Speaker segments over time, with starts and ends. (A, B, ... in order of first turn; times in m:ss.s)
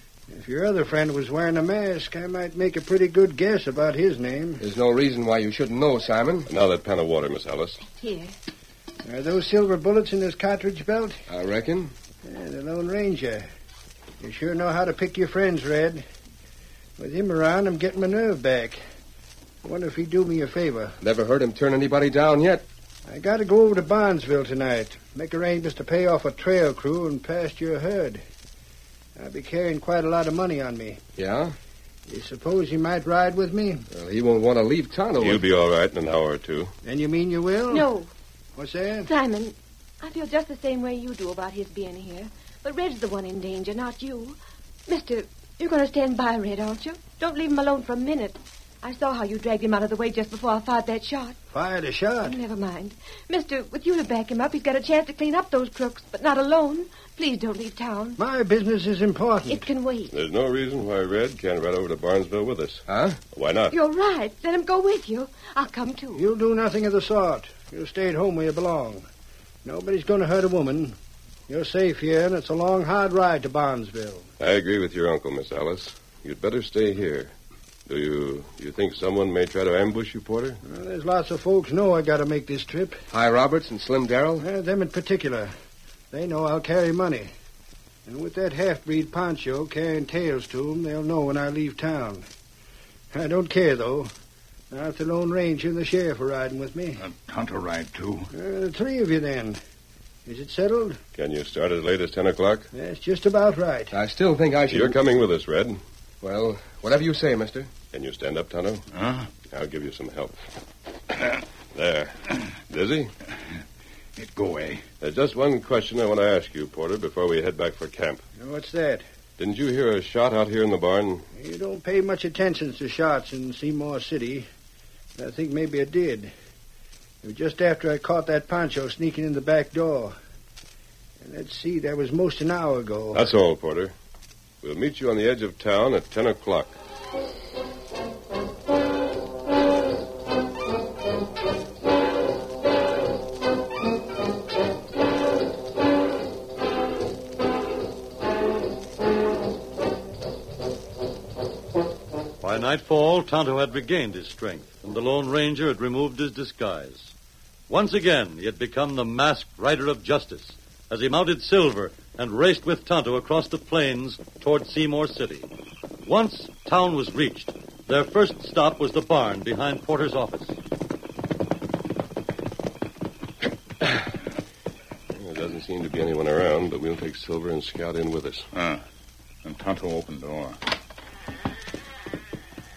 0:00.3-0:04.6 A
0:04.6-0:06.5 B
0:06.5-0:07.8 C
0:07.9-0:08.3 D
0:09.0-0:11.2 A
0:11.3-0:11.9 B
0:12.2-0:13.5 A
0:14.2-0:16.0 A
0:17.0-0:18.8 A
0:19.6-0:21.0 A
0:21.0-0:22.6 B
0:23.0-0:28.2 A
0:29.2-0:31.0 A
0:31.2-0:31.5 B
0:32.1-0:33.8 A
0:33.9-0:35.4 B
0:35.2-0:36.7 C
0:36.8-0:37.9 A
0:37.7-0:38.1 D
0:38.5-0:39.1 A
0:39.0-0:51.4 D
0:51.5-0:52.4 A
0:52.2-0:58.2 D
0:58.2-0:59.7 A
0:59.5-1:00.2 D
1:00.1-1:03.8 C
1:02.9-1:03.2 B
1:03.7-1:06.2 D
1:06.2-1:09.1 A
1:09.6-1:11.0 A
1:11.5-1:14.3 A
1:14.4-1:17.3 C
1:17.9-1:20.6 C
1:20.6-1:23.0 A
1:23.1-1:24.5 B
1:24.4-1:25.5 A
1:26.1-1:27.3 A
1:28.0-1:32.2 A
1:33.1-1:34.1 A
1:34.7-1:37.0 A
1:37.0-1:38.3 E
1:38.3-1:39.6 A
1:40.2-1:41.0 A
1:41.2-1:42.7 C
1:42.7-1:43.9 A
1:43.9-1:45.0 B
1:44.7-1:45.8 C
1:46.2-1:47.7 B
1:47.9-1:48.8 C
1:48.9-1:49.3 E
1:49.4-1:50.4 C
1:51.7-1:53.1 C
1:54.2-1:54.8 E
1:55.0-1:58.2 C
1:58.4-1:59.0 A
1:59.4-2:01.3 C
2:01.3-2:04.5 A
2:05.2-2:06.3 A
2:07.2-2:10.1 A
2:11.2-2:13.3 A
2:13.1-2:13.9 C
2:14.6-2:16.8 C
2:32.4-2:37.1 F
2:37.7-2:45.5 F
2:46.0-2:50.6 F
2:55.1-2:58.5 C
2:58.5-2:58.8 E
2:59.4-3:00.6 E